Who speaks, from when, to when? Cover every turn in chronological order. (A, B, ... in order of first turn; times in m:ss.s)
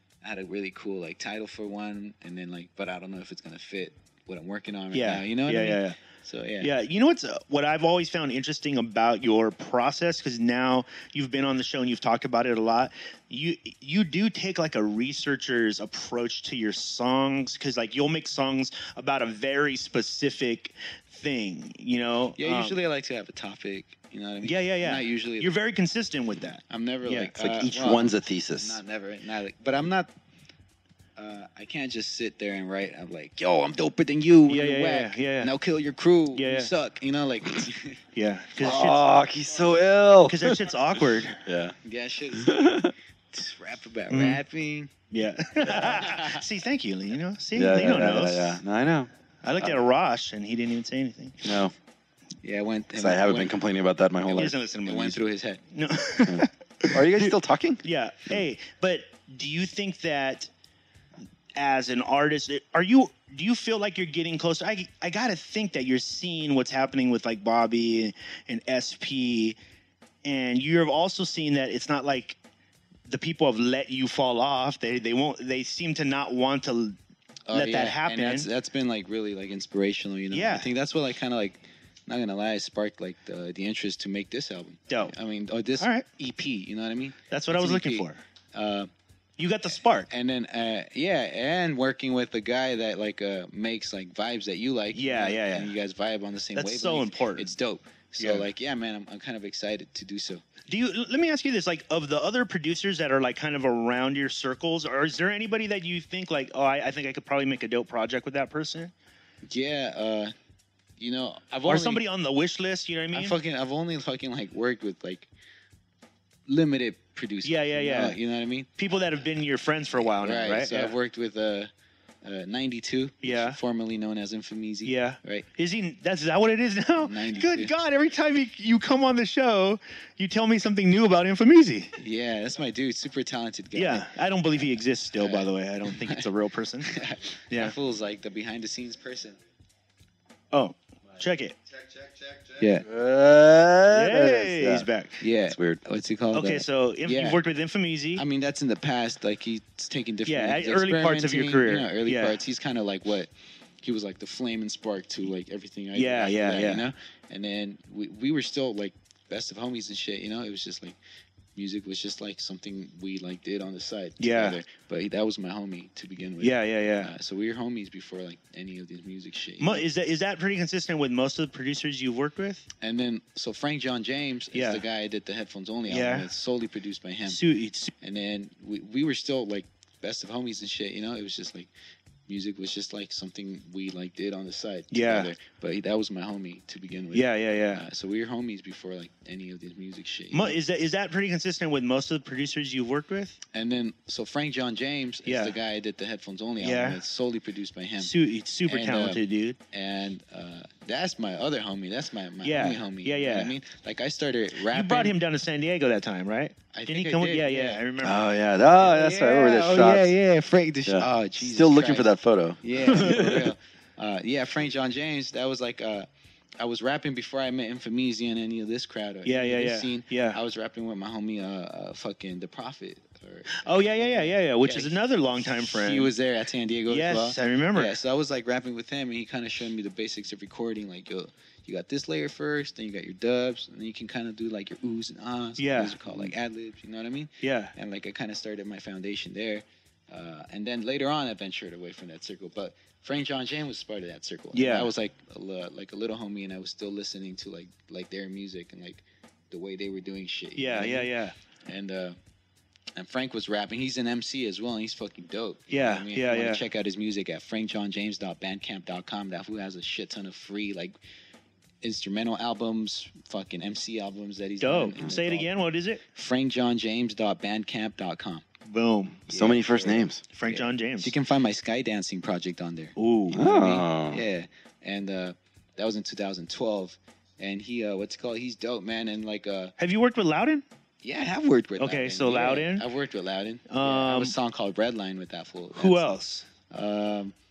0:00.2-0:06.7 A
0:04.9-0:06.0 B
0:06.6-0:22.8 B
0:22.4-0:25.5 A
0:24.4-0:27.3 B
0:26.7-0:30.1 A
0:27.4-0:28.8 C
0:31.2-0:38.0 A
0:34.5-0:35.5 B
0:36.4-0:36.7 B
0:38.2-0:39.0 B
0:38.6-0:40.6 C
0:40.2-0:41.4 B
0:41.4-0:41.8 C
0:41.8-0:44.9 A
0:42.4-0:42.9 C
0:44.1-0:44.4 B
0:45.1-0:48.6 B
0:45.7-0:46.0 C
0:45.8-0:46.4 A
0:47.6-0:49.1 C
0:49.4-0:51.4 B
0:51.4-0:51.7 C
0:52.4-0:53.5 A
0:53.0-0:54.5 C
0:54.3-0:55.2 B
0:54.8-0:55.6 A
0:55.8-0:57.3 B
0:56.3-0:58.4 C
0:57.8-1:00.5 B
1:01.6-1:09.6 B
1:10.2-1:12.4 B
1:13.1-1:17.0 B
1:17.5-1:28.9 A
1:17.5-1:18.5 B
1:20.3-1:20.7 B
1:25.8-1:26.0 B
1:27.3-1:28.2 B
1:29.4-1:30.1 B
1:30.1-1:40.4 A
1:34.9-1:35.7 B
1:36.6-1:37.5 B
1:38.2-1:38.5 B
1:40.7-1:48.9 B
1:49.5-1:50.3 A
1:51.0-1:52.0 A
1:51.7-1:53.4 B
1:53.1-1:55.3 A
1:56.5-1:58.7 A
1:57.4-1:58.2 B
1:58.8-2:00.9 B
2:00.2-2:01.7 A
2:02.2-2:05.5 A
2:03.2-2:03.6 B
2:04.8-2:11.9 B
2:07.0-2:07.7 A
2:12.0-2:14.1 A
2:13.8-2:16.9 B
2:15.2-2:16.2 A
2:16.9-2:19.4 A
2:20.5-2:21.6 B
2:22.0-2:24.9 C
2:22.6-2:22.9 A
2:23.9-2:25.2 B
2:25.2-2:27.4 A
2:25.4-2:25.8 C
2:26.3-2:28.2 B
2:28.2-2:33.3 A
2:30.3-2:32.4 B
2:33.8-2:41.0 A
2:36.0-2:36.9 B
2:41.6-2:49.8 A
2:44.2-2:44.6 B
2:46.4-2:47.1 B
2:49.6-2:52.6 B
2:52.8-2:57.4 A
2:54.5-2:54.8 B
2:55.9-2:56.3 B
2:57.3-2:57.9 B
2:58.0-3:01.7 A
3:02.3-3:10.6 A
3:04.9-3:05.3 B
3:07.1-3:07.8 B
3:10.3-3:13.4 B
3:13.5-3:18.2 A
3:15.3-3:15.6 B
3:16.6-3:17.0 B
3:18.0-3:19.6 B
3:18.7-3:19.2 A
3:19.7-3:25.2 A
3:22.4-3:23.5 B
3:24.7-3:28.2 B
3:26.7-3:27.8 A
3:28.0-3:30.1 C
3:28.8-3:36.1 A
3:30.9-3:33.5 C
3:32.8-3:33.3 B
3:36.6-4:11.1 A
3:39.2-3:40.4 B
3:43.6-3:46.1 B
3:46.9-3:48.0 B
3:55.6-3:56.0 B
3:57.4-3:57.7 B
4:04.5-4:04.9 B
4:10.6-4:11.3 B
4:11.7-4:12.2 A
4:13.0-4:21.0 A
4:15.7-4:16.6 B
4:21.8-4:25.5 A
4:24.6-4:26.0 B
4:26.1-4:28.5 A
4:28.7-4:29.2 B
4:29.3-4:30.2 C
4:29.3-4:39.7 A
4:30.4-4:31.1 B
4:33.0-4:33.4 B
4:33.3-4:34.2 C
4:39.8-4:40.6 B
4:41.0-4:46.2 A
4:41.8-4:42.8 B
4:43.7-4:44.4 B
4:45.8-4:46.4 B
4:46.7-4:47.3 A